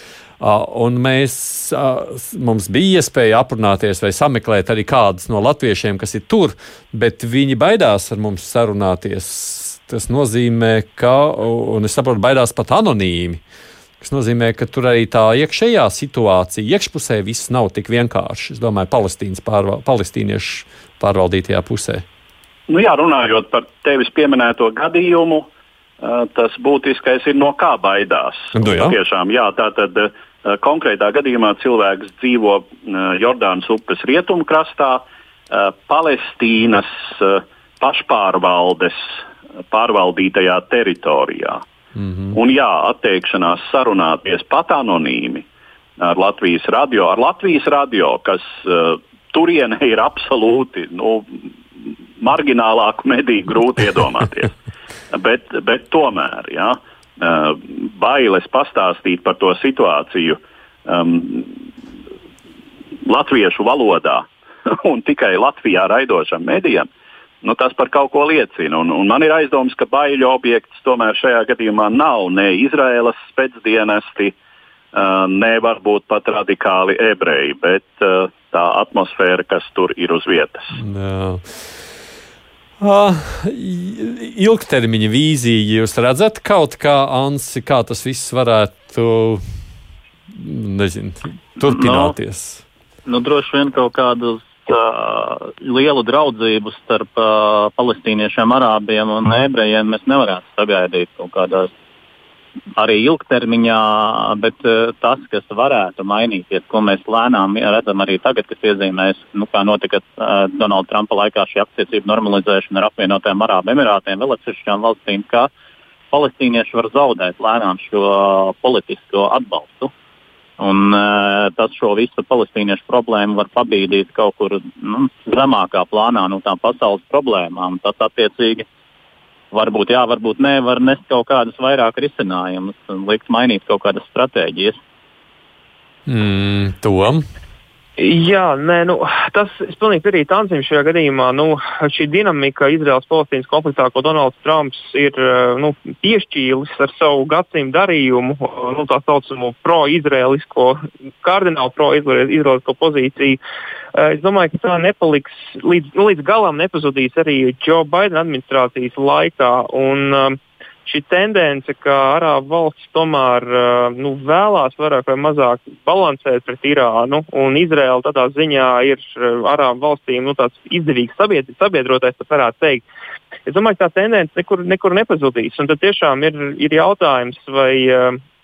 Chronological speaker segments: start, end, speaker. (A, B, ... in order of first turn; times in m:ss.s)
0:00.4-0:13.4 A
0:14.0-0:22.0 A
0:22.7-0:25.5 B
0:26.0-0:41.6 B
0:28.5-0:29.0 A
0:42.0-0:42.4 A
0:42.3-0:45.5 B
0:46.0-0:54.5 B
0:55.1-1:01.6 B
1:03.1-1:06.9 B
1:07.4-1:14.4 B
1:14.9-1:20.8 B
1:20.8-1:21.5 A
1:22.8-1:29.4 A
1:30.3-1:32.6 A
1:31.6-1:32.2 C
1:33.1-1:41.7 C
1:42.8-1:55.5 C
1:56.1-1:59.9 C
2:00.6-2:08.7 C
2:09.5-2:14.8 C
2:16.1-2:17.2 A
2:18.0-2:33.4 D
2:34.0-2:52.8 D
2:53.5-2:58.2 D